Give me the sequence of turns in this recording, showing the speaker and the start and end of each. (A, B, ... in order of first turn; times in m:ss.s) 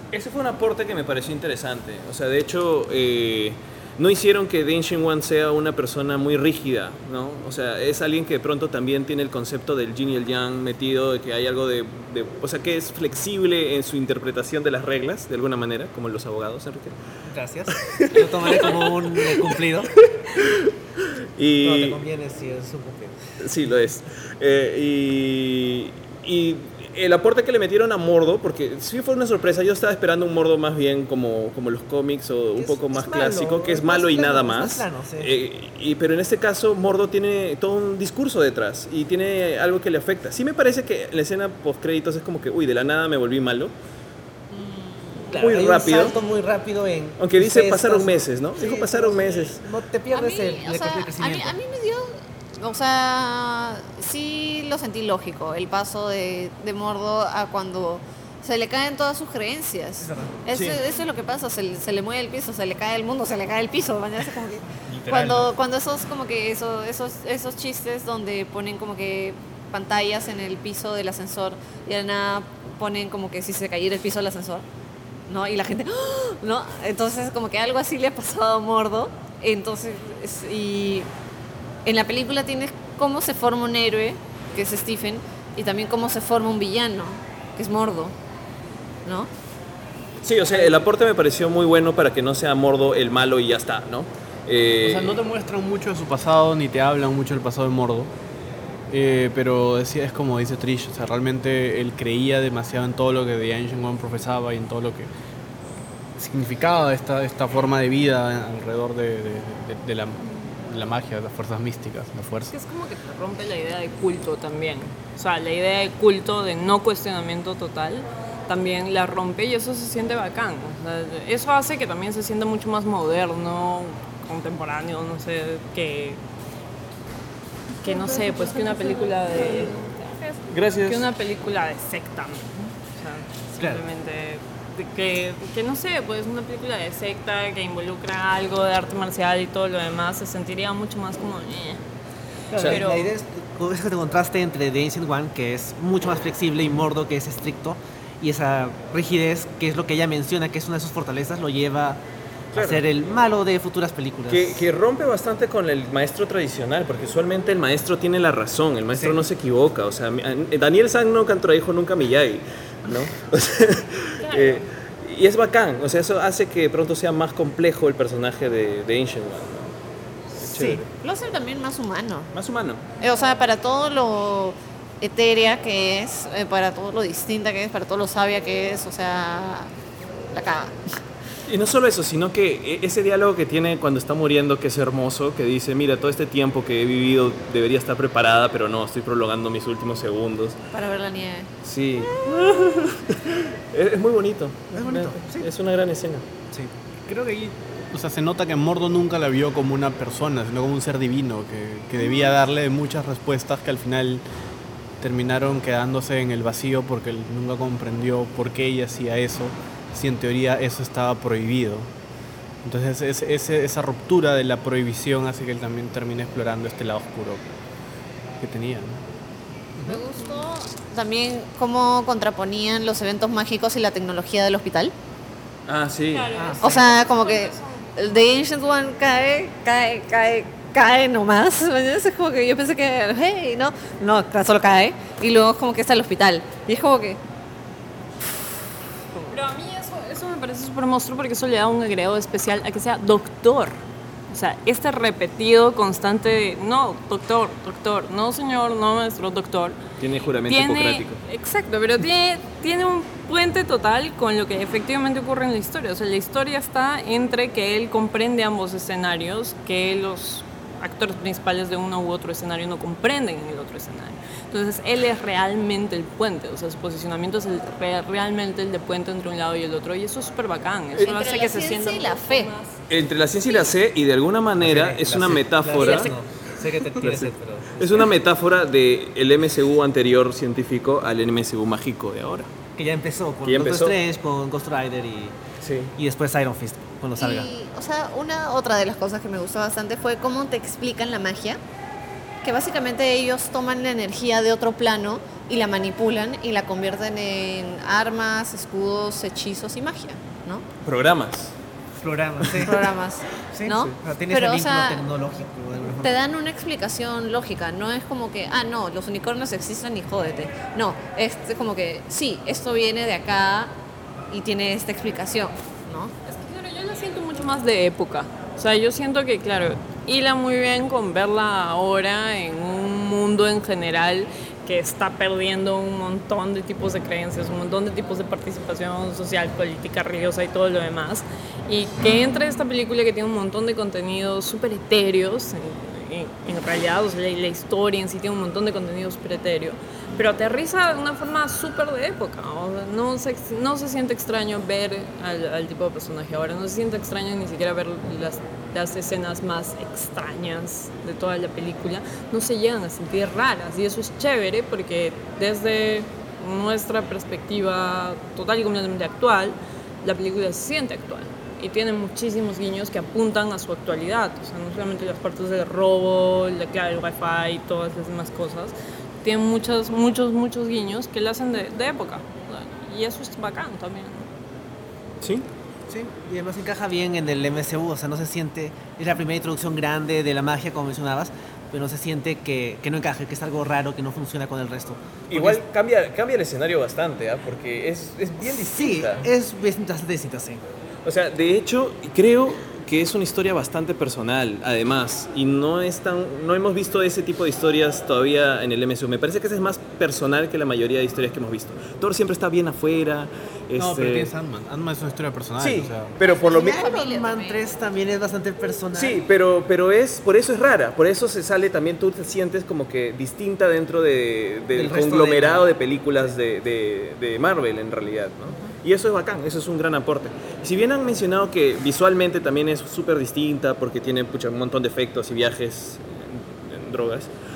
0:00.1-0:17.0 A
0:17.2-0:19.9 B
0:17.8-0:19.5 A
0:20.2-0:20.7 A
0:21.4-0:22.0 A
0:21.6-0:23.2 B
0:23.4-0:43.7 A
0:32.6-0:35.3 B
0:44.5-0:45.3 C
0:45.3-0:51.6 B
0:45.3-0:46.1 A
0:47.2-0:49.6 A
0:50.1-1:14.6 C
1:00.0-1:00.4 B
1:04.9-1:05.5 D
1:15.3-1:21.1 C
1:21.8-1:28.2 C
1:29.0-1:29.3 C
1:30.2-1:35.2 A
1:34.8-1:38.1 D
1:38.9-1:45.1 D
1:46.2-1:52.5 D
1:52.5-2:06.2 E
2:07.8-2:21.8 E
2:10.5-2:11.1 A
2:13.6-2:13.8 B
2:22.5-2:32.0 B
2:22.5-2:22.8 A
2:22.6-2:23.1 E
2:32.5-2:32.8 A
2:32.5-2:34.6 B
2:34.3-2:49.7 A
2:38.9-2:39.2 B
2:50.4-2:50.8 A
2:50.6-2:52.3 C
2:52.3-2:52.8 A
2:53.0-2:59.7 C
3:00.3-3:00.8 C
3:01.5-3:10.6 A
3:10.7-3:11.5 C
3:11.6-3:16.3 A
3:14.7-3:15.5 B
3:17.1-3:24.2 D
3:25.0-3:31.9 D
3:32.6-3:37.4 D
3:38.4-3:39.0 D
3:39.8-3:44.9 C
3:45.7-3:46.4 A
3:46.1-3:47.8 E
3:46.3-3:46.8 B
3:46.6-3:57.2 C
3:59.2-4:09.8 E
4:10.0-4:11.2 A
4:10.5-4:32.7 E
4:30.9-4:32.5 C
4:32.9-4:36.1 A
4:34.6-4:38.1 B
4:37.0-4:42.5 A
4:42.8-4:45.3 B
4:43.4-4:44.0 A
4:45.6-4:45.9 A
4:46.0-4:47.5 B
4:47.2-4:51.6 C
4:52.4-5:00.6 C
5:00.8-5:01.5 A
5:02.0-5:02.9 B
5:02.6-5:05.0 C
5:03.5-5:06.1 B
5:06.0-5:13.7 C
5:14.3-5:16.1 C
5:16.2-6:14.3 E
6:15.2-6:15.5 A
6:15.9-6:25.6 B
6:25.3-6:29.3 A
6:28.4-6:30.6 B
6:31.0-6:44.3 A
6:43.8-6:46.1 D
6:45.6-6:46.8 A
6:46.3-6:47.6 C
6:46.4-6:49.2 B
6:48.9-7:07.3 A
6:54.7-6:55.6 B